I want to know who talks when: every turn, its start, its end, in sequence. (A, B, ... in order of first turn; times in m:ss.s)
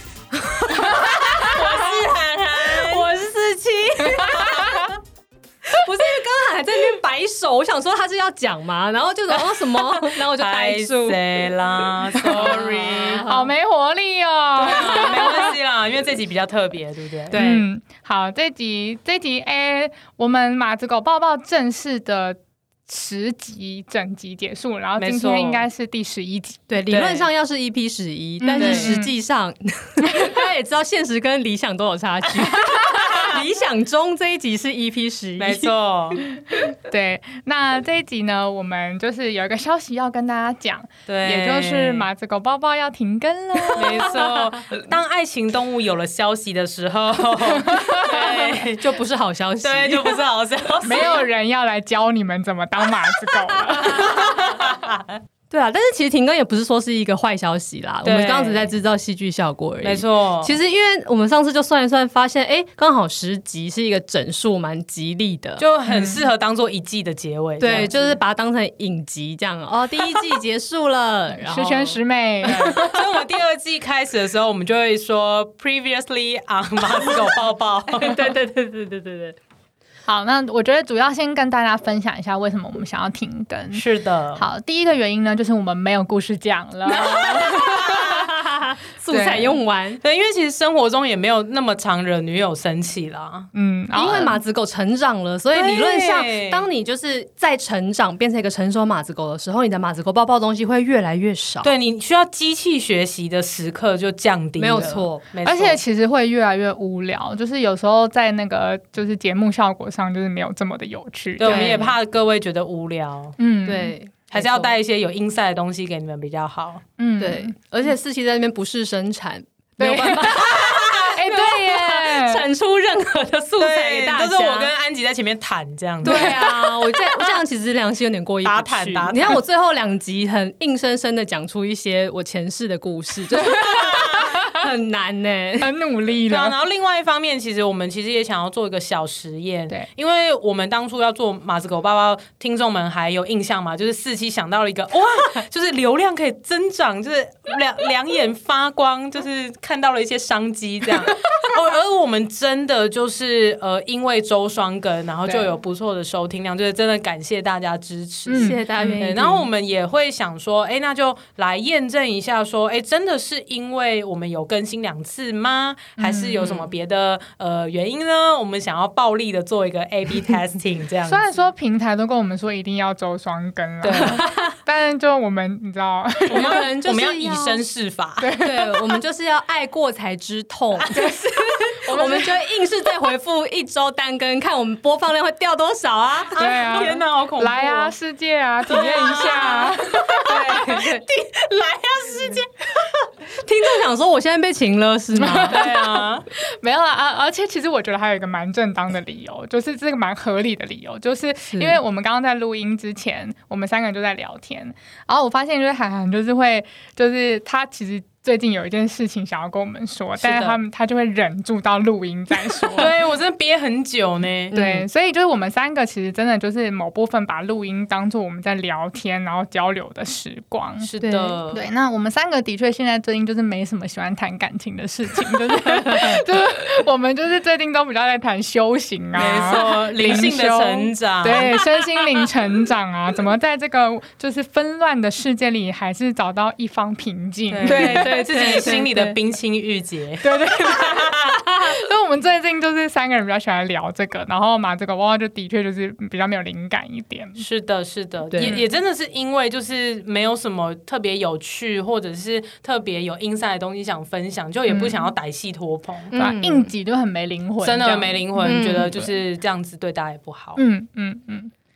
0:00.5-0:02.0 A
0:00.7-0:01.0 B
0:01.1-0:03.1 C
0:02.6-0:04.8 A
0:04.3-0:04.8 C
0:05.6-0:11.5 A
0:10.3-0:13.3 C
0:12.1-0:13.5 A
0:12.2-0:15.5 B
0:14.6-0:17.4 C
0:17.3-0:17.6 A
0:17.3-0:26.6 B
0:25.0-0:25.6 C
0:26.7-0:35.7 A
0:26.9-0:27.3 C
0:28.4-0:29.1 B
0:28.5-0:29.0 C
0:35.4-0:36.2 C
0:36.6-0:44.2 B
0:41.1-0:42.1 C
0:43.7-0:44.0 A
0:43.8-0:49.0 C
0:47.6-0:48.3 B
0:48.0-0:50.2 A
0:49.6-0:51.3 C
0:50.8-0:54.4 B
0:54.2-0:55.0 C
0:55.5-1:05.6 A
0:58.0-0:58.7 C
0:59.8-1:00.6 C
1:05.6-1:08.2 C
1:05.8-1:06.2 B
1:07.6-1:12.0 A
1:11.3-1:13.0 B
1:12.4-1:18.4 C
1:16.9-1:17.3 A
1:17.9-1:19.4 A
1:20.0-1:23.8 B
1:23.7-1:24.4 C
1:24.3-1:28.1 B
1:26.9-1:28.2 C
1:27.9-1:30.0 A
1:29.1-1:29.6 B
1:30.0-1:33.5 C
1:33.5-1:34.4 B
1:33.9-1:41.7 A
1:35.5-1:36.6 C
1:41.6-1:45.8 C
1:44.6-1:45.2 A
1:45.4-1:51.9 B
1:51.4-1:53.4 C
1:51.4-1:51.9 A
1:53.4-1:53.9 B
1:53.6-1:54.7 A
1:54.3-1:56.8 C
1:57.0-1:57.5 B
1:57.2-2:04.7 A
1:59.8-2:00.5 B
2:00.6-2:00.9 C
2:01.0-2:02.4 B
2:03.6-2:06.4 C
2:06.0-2:15.7 A
2:06.0-2:07.0 B
2:08.4-2:09.4 C
2:15.6-2:16.6 B
2:16.3-2:51.4 C
2:35.2-2:35.5 B
2:38.3-2:39.5 A
2:38.3-2:39.1 B
2:46.0-2:46.7 B
2:51.0-2:56.6 B
2:53.8-2:54.2 C
2:54.0-2:54.5 A
2:56.3-2:58.3 C
2:56.3-2:57.6 A
2:58.2-2:59.0 B
2:58.4-3:06.9 A
3:00.9-3:02.4 B
3:06.3-3:07.9 C
3:06.4-3:10.8 B
3:08.7-3:12.5 C
3:10.2-3:11.0 A
3:13.3-3:15.6 A
3:15.2-3:32.9 B
3:15.4-3:16.2 C
3:21.5-3:21.8 A
3:30.2-3:30.6 C
3:32.8-3:34.5 C
3:34.5-3:34.8 A
3:34.5-3:40.9 B
3:40.8-3:41.6 C
3:41.0-3:41.4 A
3:41.5-3:58.9 B
3:49.2-3:51.6 C
3:57.5-4:01.4 C
3:57.6-3:59.2 A
4:00.2-4:07.4 B
4:07.4-4:16.1 C
4:08.3-4:08.6 A
4:14.7-4:15.1 B
4:16.1-4:16.7 A
4:16.1-4:19.1 B
4:17.6-4:20.6 C
4:18.4-4:19.0 A
4:20.6-4:21.5 B